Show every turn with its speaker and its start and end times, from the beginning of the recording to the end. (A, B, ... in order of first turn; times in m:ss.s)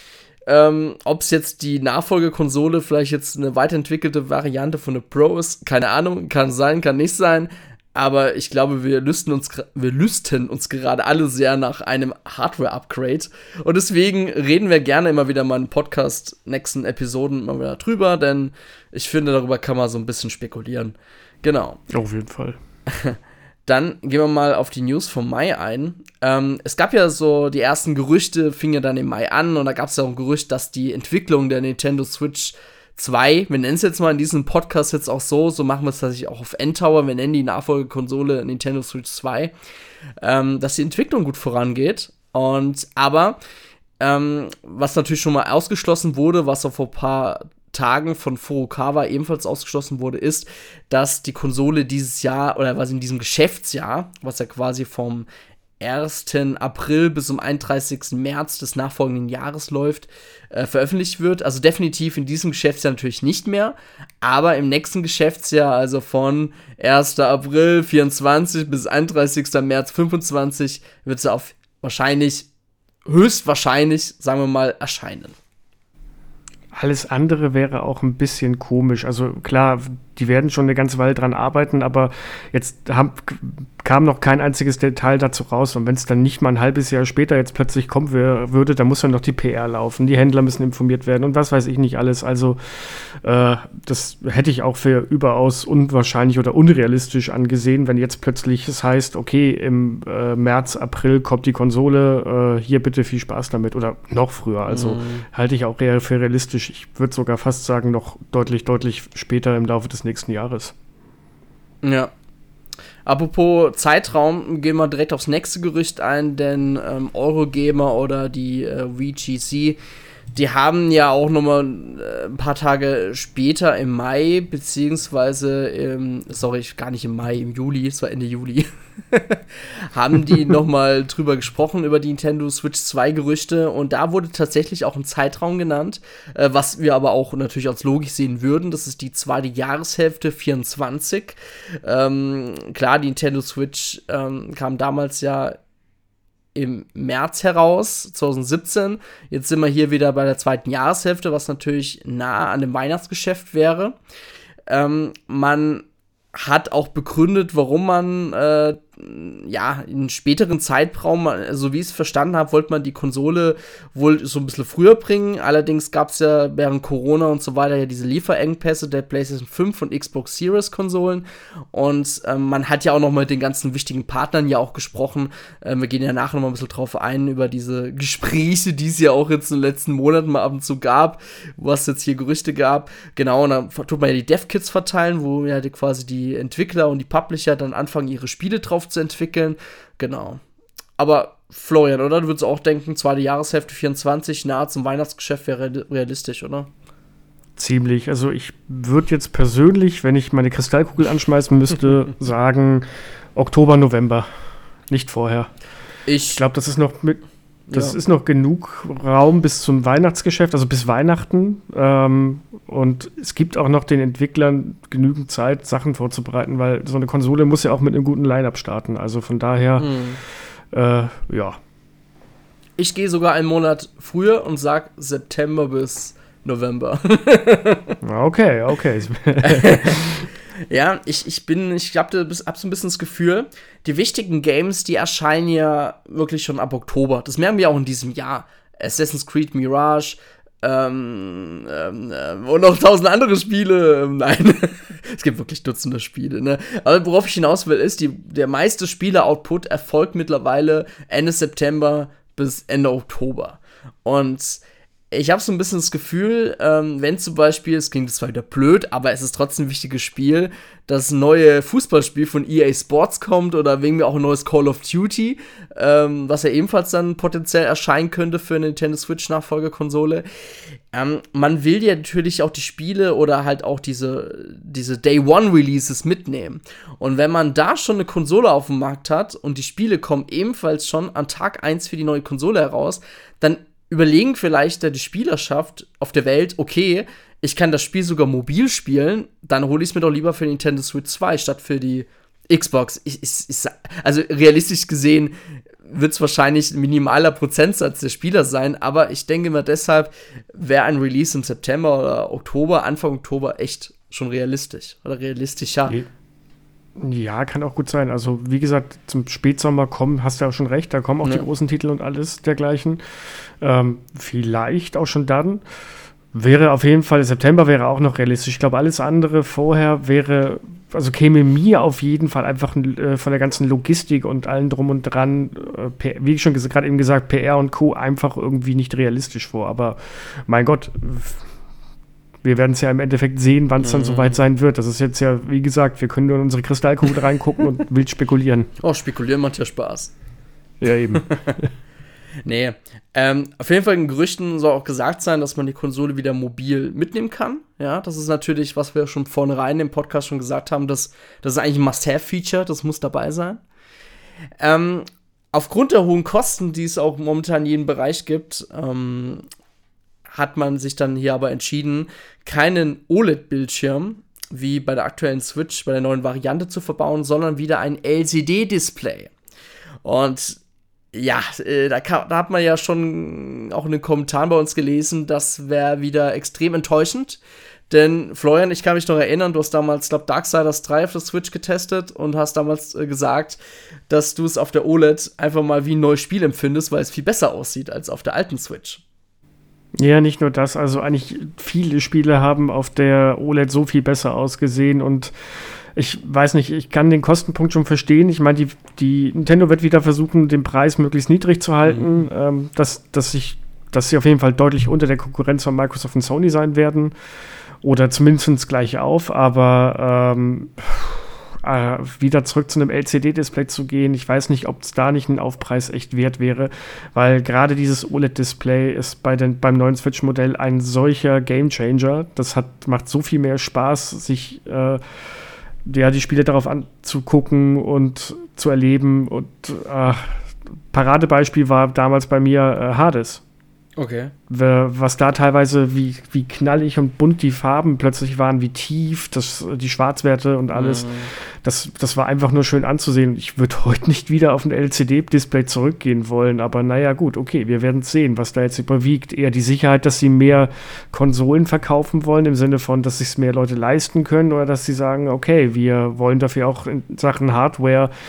0:00.5-0:21.8 A
0:21.9-0:22.6 B
0:22.9-0:39.5 A
0:40.2-0:43.4 A
0:44.0-0:55.3 A
0:55.8-1:12.5 A
1:13.1-1:15.4 A
1:16.7-1:50.7 B
1:44.7-1:45.2 A
1:51.8-1:52.1 A
1:53.0-1:59.8 A
2:00.3-2:25.6 A
2:26.6-2:34.0 A
2:34.7-3:10.4 A
3:11.0-3:16.7 A
3:17.6-3:24.3 B
3:24.9-3:25.5 B
3:26.1-3:26.4 A
3:26.4-3:39.9 B
3:27.7-3:28.0 A
3:39.8-3:40.2 A
3:40.7-3:41.6 B
3:42.8-3:48.0 A
3:48.0-3:50.3 B
3:49.4-4:30.3 A
4:30.9-5:06.0 A
5:07.0-5:15.6 B
5:16.3-5:31.4 B
5:32.4-5:38.7 B
5:33.8-5:34.4 A
5:38.8-5:40.1 A
5:40.8-5:41.7 B
5:41.2-5:41.6 A
5:42.4-5:53.6 A
5:54.6-5:59.4 A
6:00.3-6:09.3 A
6:10.0-6:10.6 A
6:11.1-6:23.6 A
6:24.1-6:29.0 A
6:30.0-6:47.1 B
6:41.8-6:42.2 A
6:47.8-7:05.0 B
7:05.8-7:13.4 B
7:14.0-7:14.3 A
7:14.5-7:38.1 B
7:20.7-7:21.3 A